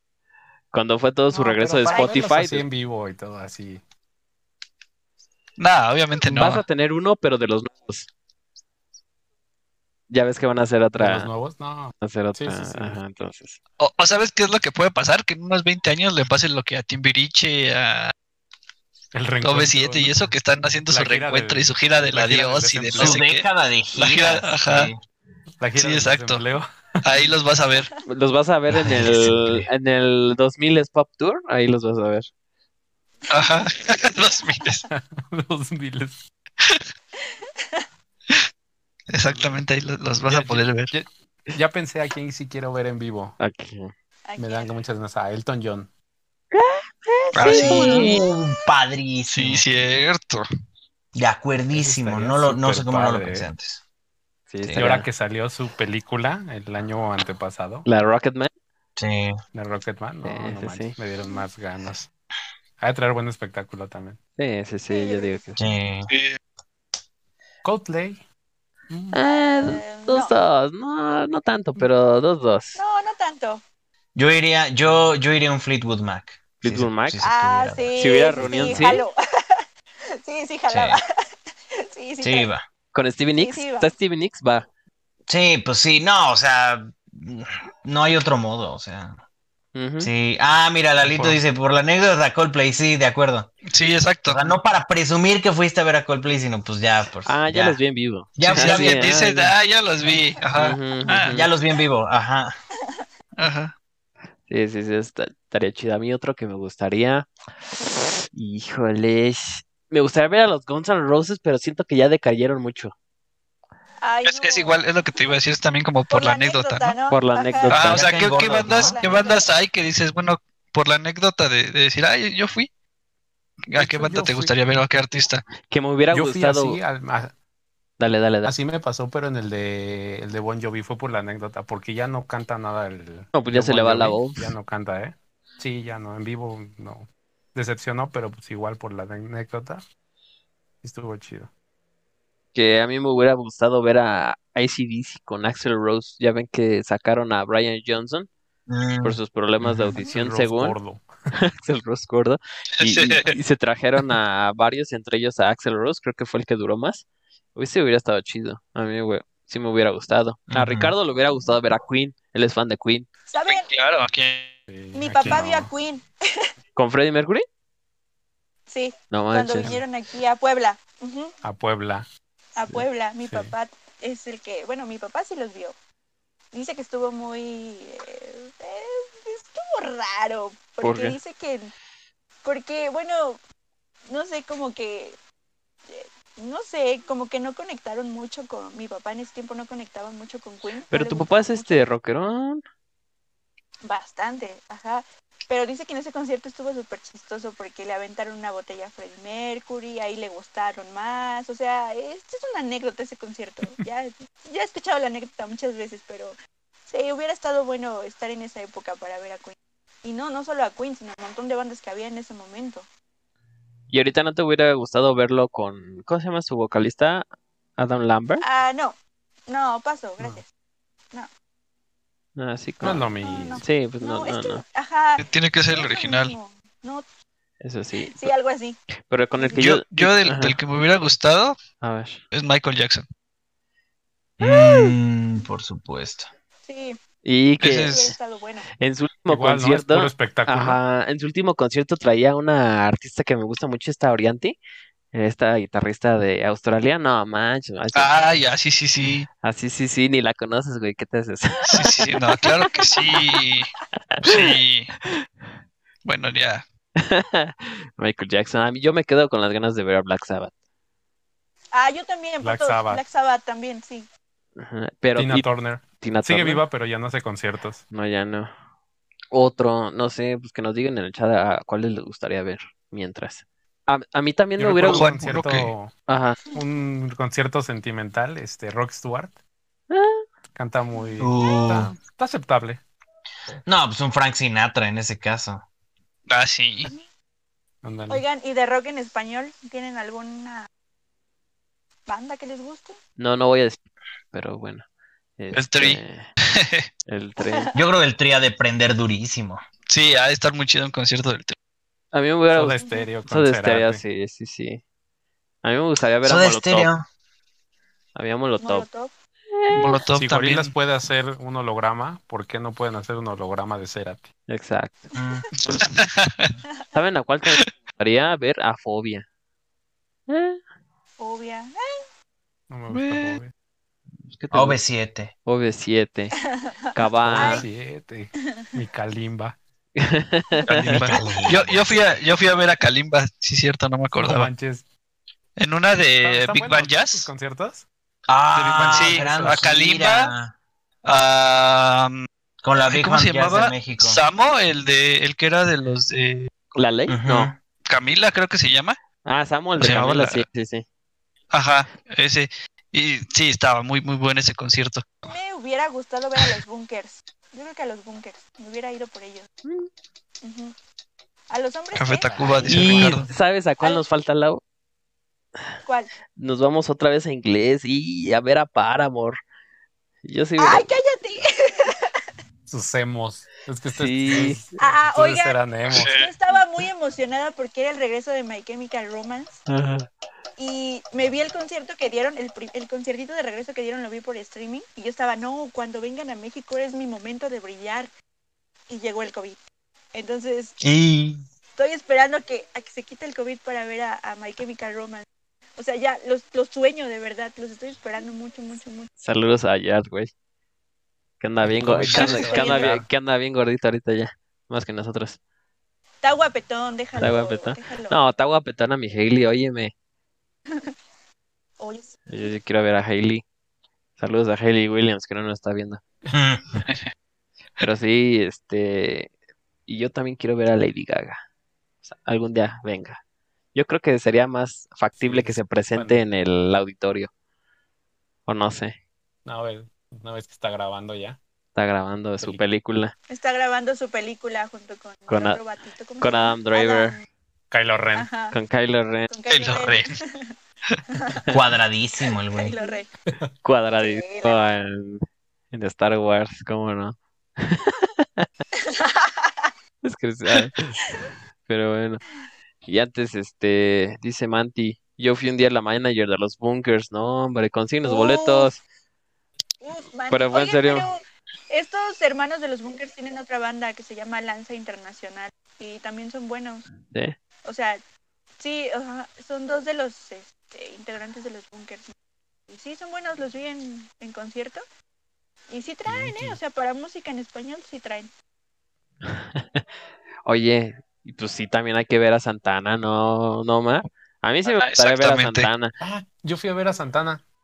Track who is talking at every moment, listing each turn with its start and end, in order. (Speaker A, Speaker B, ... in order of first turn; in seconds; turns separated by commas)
Speaker A: 0.7-2.6, Speaker B: 1.3-3.8, Speaker C: 1.9-2.3, Speaker D: 5.6-6.6, Speaker A: 6.3-8.1, Speaker A: 10.1-11.3, Speaker B: 11.0-13.0, Speaker A: 12.0-13.6, Speaker D: 13.8-18.1, Speaker B: 19.1-20.3, Speaker D: 19.4-24.9, Speaker B: 20.9-23.2, Speaker E: 22.9-25.0, Speaker B: 25.6-26.6, Speaker D: 25.7-26.4, Speaker D: 27.0-27.9, Speaker A: 28.1-32.3, Speaker E: 28.7-29.7, Speaker D: 33.3-34.8, Speaker B: 34.9-36.2, Speaker C: 37.2-37.8, Speaker D: 39.1-40.9, Speaker B: 39.2-39.6, Speaker B: 40.2-43.4, Speaker A: 43.4-43.9, Speaker C: 44.3-44.7, Speaker B: 44.4-45.9, Speaker A: 46.5-48.1, Speaker D: 47.3-48.1, Speaker C: 47.4-48.4, Speaker E: 47.4-49.6, Speaker D: 49.3-50.4, Speaker E: 51.1-53.8, Speaker B: 51.7-53.5, Speaker A: 54.5-55.1, Speaker B: 54.8-57.9, Speaker A: 57.9-58.5, Speaker E: 59.0-59.4, Speaker B: 59.5-62.1, Speaker A: 60.2-60.9, Speaker B: 62.8-64.2, Speaker A: 64.4-65.6, Speaker C: 64.9-65.4, Speaker E: 65.6-66.1, Speaker D: 66.1-66.4, Speaker B: 67.6-68.2, Speaker B: 68.9-69.2, Speaker A: 69.1-72.8, Speaker C: 69.2-70.3, Speaker C: 72.8-73.6, Speaker E: 74.1-78.9, Speaker A: 76.6-77.2, Speaker C: 77.2-79.6, Speaker A: 78.0-79.0, Speaker C: 80.2-81.0, Speaker E: 80.7-81.0, Speaker C: 81.8-82.5, Speaker E: 82.2-82.6, Speaker A: 82.9-84.7, Speaker C: 83.4-83.9, Speaker E: 85.3-89.2, Speaker A: 89.7-90.1, Speaker E: 90.0-93.5, Speaker B: 91.1-91.4, Speaker D: 93.7-94.5, Speaker E: 94.2-97.8, Speaker A: 97.2-99.5, Speaker E: 98.4-99.1, Speaker D: 98.4-101.4, Speaker A: 100.6-101.5, Speaker E: 101.3-102.5, Speaker D: 103.4-103.7, Speaker A: 104.5-112.9, Speaker C: 114.0-114.8, Speaker D: 114.2-117.0, Speaker C: 116.1-119.5, Speaker A: 117.1-118.1, Speaker D: 117.7-122.7, Speaker E: 117.7-119.0, Speaker D: 123.7-125.5, Speaker B: 123.7-124.5, Speaker A: 125.6-126.8, Speaker B: 126.1-127.3, Speaker A: 128.0-128.5, Speaker B: 128.4-139.8, Speaker A: 133.3-134.5, Speaker B: 140.8-141.5, Speaker A: 142.5-148.3, Speaker E: 148.7-149.9, Speaker A: 149.0-150.8, Speaker B: 149.8-151.1, Speaker A: 151.5-163.1, Speaker D: 152.8-153.3, Speaker E: 160.5-160.9, Speaker C: 163.3-163.7, Speaker D: 163.5-164.5, Speaker B: 164.7-165.7, Speaker C: 164.9-166.1, Speaker A: 166.8-167.4, Speaker C: 168.7-171.3, Speaker A: 169.1-169.8, Speaker B: 171.4-172.1, Speaker C: 172.5-175.8, Speaker B: 173.2-173.5, Speaker C: 176.5-181.7, Speaker A: 180.8-181.2, Speaker C: 182.4-183.4, Speaker C: 184.1-185.2, Speaker C: 185.9-191.9, Speaker A: 190.9-192.6, Speaker C: 193.8-206.4, Speaker C: 206.9-212.9, Speaker A: 213.9-217.2, Speaker A: 217.8-218.4, Speaker C: 218.4-219.0, Speaker C: 219.5-220.4, Speaker A: 222.4-224.6, Speaker B: 222.8-223.6, Speaker C: 223.2-227.0, Speaker D: 225.2-226.4, Speaker A: 227.6-228.3, Speaker C: 228.0-228.8, Speaker A: 229.1-230.6, Speaker C: 229.3-229.6, Speaker D: 229.6-231.6, Speaker A: 231.8-232.2, Speaker D: 232.3-233.0, Speaker E: 234.4-236.3, Speaker C: 236.6-237.0, Speaker A: 237.2-238.2, Speaker D: 237.6-238.1, Speaker C: 237.8-238.7, Speaker A: 238.8-244.6, Speaker B: 239.3-240.8, Speaker A: 245.1-248.3, Speaker D: 247.9-249.3, Speaker A: 249.4-252.0, Speaker D: 251.7-253.7, Speaker C: 252.4-253.2, Speaker A: 254.1-254.6, Speaker D: 254.2-254.9, Speaker D: 256.0-256.6, Speaker A: 257.0-260.5, Speaker C: 261.7-264.1, Speaker B: 262.4-263.0, Speaker A: 264.6-265.5, Speaker B: 265.1-267.8, Speaker A: 266.0-266.6, Speaker A: 267.9-268.5, Speaker A: 269.3-275.1, Speaker B: 274.6-275.9, Speaker D: 274.8-275.7, Speaker A: 276.1-276.4, Speaker B: 276.5-279.4, Speaker A: 279.9-280.2, Speaker B: 280.5-282.8, Speaker C: 281.0-281.8, Speaker E: 281.2-281.9, Speaker E: 283.6-285.6, Speaker D: 286.3-286.9, Speaker B: 287.8-288.2, Speaker C: 288.1-290.7, Speaker C: 292.1-293.0, Speaker A: 293.2-293.8, Speaker A: 294.3-294.8, Speaker A: 295.4-296.3, Speaker D: 295.5-296.9, Speaker A: 297.1-297.7, Speaker C: 297.4-297.8, Speaker E: 297.7-299.6, Speaker D: 299.9-301.5, Speaker A: 302.1-304.8, Speaker B: 302.5-304.0, Speaker C: 302.8-303.1, Speaker A: 305.6-306.9, Speaker E: 306.2-307.0, Speaker A: 308.1-308.9, Speaker C: 308.6-309.1, Speaker A: 309.5-310.0, Speaker D: 309.7-310.7, Speaker B: 310.1-314.3, Speaker A: 314.5-315.1, Speaker E: 315.1-315.4, Speaker C: 315.2-315.4, Speaker D: 315.7-316.5, Speaker A: 316.9-319.2, Speaker A: 320.3-320.6, Speaker C: 321.2-321.8, Speaker B: 322.7-323.5, Speaker D: 322.9-323.4, Speaker A: 324.3-324.8, Speaker E: 324.5-325.3, Speaker A: 325.4-326.4, Speaker A: 326.9-327.6, Speaker B: 327.2-329.6, Speaker C: 327.3-327.6, Speaker A: 329.9-331.0, Speaker D: 330.7-334.5, Speaker B: 330.7-331.2, Speaker E: 331.1-331.9, Speaker B: 334.1-334.9, Speaker D: 335.6-337.3, Speaker B: 336.2-337.9, Speaker E: 338.3-340.5, Speaker B: 338.5-339.6, Speaker D: 338.7-340.3, Speaker D: 341.0-342.3, Speaker E: 342.6-344.2, Speaker D: 342.9-346.5, Speaker A: 346.7-347.5, Speaker E: 347.1-347.6, Speaker D: 347.9-349.0, Speaker A: 349.2-350.8, Speaker D: 349.8-350.4, Speaker D: 351.5-355.2, Speaker C: 355.2-359.5, Speaker A: 359.6-359.9, Speaker C: 360.4-360.7, Speaker C: 361.5-362.9, Speaker D: 361.9-363.3, Speaker B: 362.2-363.3, Speaker A: 362.7-364.6, Speaker E: 362.8-363.2, Speaker C: 365.8-366.1, Speaker A: 366.4-369.4, Speaker A: 370.2-370.9, Speaker C: 370.6-372.2, Speaker B: 372.7-376.1, Speaker A: 373.9-374.7, Speaker C: 374.8-379.6, Speaker D: 375.9-376.3, Speaker A: 379.7-380.1, Speaker C: 380.6-388.1, Speaker C: 388.9-389.6, Speaker C: 390.1-390.8, Speaker E: 390.8-391.4, Speaker C: 391.8-399.1, Speaker A: 399.2-400.3, Speaker A: 401.4-405.4, Speaker B: 401.6-403.1, Speaker D: 402.1-402.5, Speaker C: 402.1-402.9, Speaker C: 406.2-408.2, Speaker A: 407.1-409.9, Speaker C: 411.8-412.6, Speaker A: 412.3-413.4, Speaker A: 414.2-416.0, Speaker E: 416.3-416.6, Speaker D: 416.8-417.1, Speaker A: 417.8-419.3, Speaker A: 419.9-421.4, Speaker A: 422.1-423.2, Speaker A: 423.7-427.3, Speaker B: 425.1-426.2, Speaker A: 428.5-428.9, Speaker B: 429.4-431.4, Speaker A: 431.7-433.1, Speaker C: 433.3-437.2, Speaker A: 435.3-435.6, Speaker A: 436.2-437.1, Speaker B: 437.7-438.3, Speaker C: 438.1-438.6, Speaker A: 438.5-439.3, Speaker C: 439.3-440.5, Speaker D: 439.5-440.1, Speaker C: 441.2-441.5, Speaker E: 441.5-442.7, Speaker C: 442.5-443.1, Speaker A: 443.6-448.5, Speaker C: 444.0-444.6, Speaker C: 448.8-449.7, Speaker A: 450.0-451.0, Speaker A: 451.6-452.2, Speaker A: 452.9-458.8, Speaker C: 458.0-458.7, Speaker C: 459.8-461.2, Speaker A: 460.3-461.1, Speaker C: 461.7-466.9, Speaker A: 467.1-467.3, Speaker C: 467.6-468.0, Speaker C: 468.6-472.1, Speaker C: 472.7-474.8, Speaker C: 475.7-478.3, Speaker B: 476.1-476.6, Speaker A: 479.2-479.8, Speaker A: 480.4-485.9, Speaker D: 484.6-485.7, Speaker B: 486.0-487.4